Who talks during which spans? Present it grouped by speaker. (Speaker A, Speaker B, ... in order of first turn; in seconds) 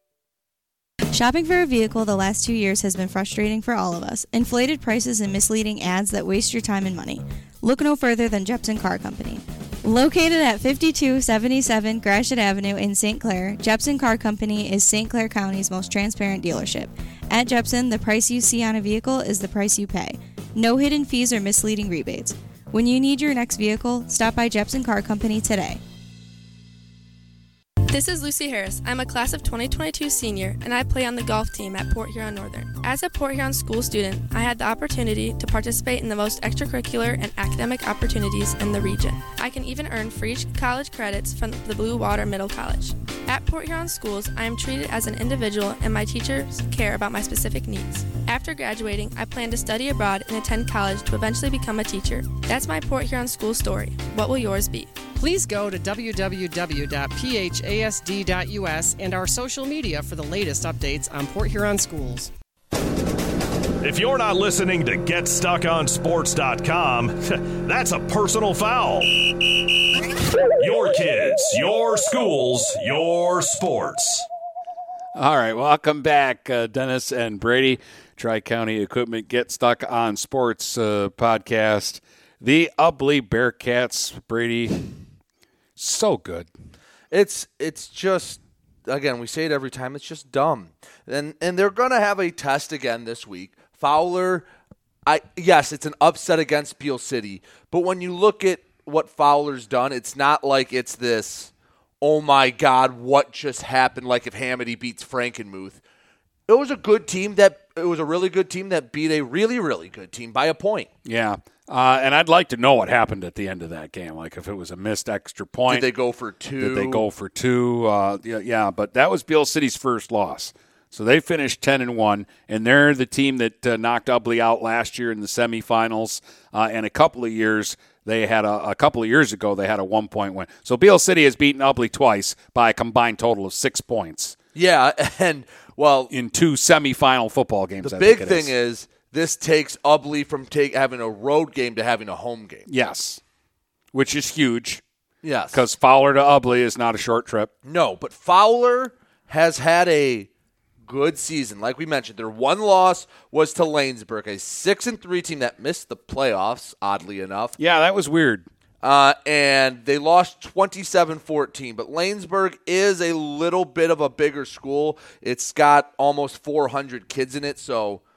Speaker A: 1.1-25.8
Speaker B: 27.9-54.9
Speaker C: 55.2-62.3
Speaker D: 63.8-69.2, 70.6-74.3
Speaker E: 75.2-85.0, 85.8-86.5, 111.0-115.9, 116.6-134.4, 136.1-138.5, 142.7-143.2, 143.9-144.8, 145.5-147.5, 157.6-158.5
Speaker F: 87.1-94.5, 95.1-105.8, 106.5-110.9, 115.7-117.1, 134.6-136.1, 137.8-142.7, 145.2-145.6, 147.7-150.3, 150.8-157.6, 158.8-168.0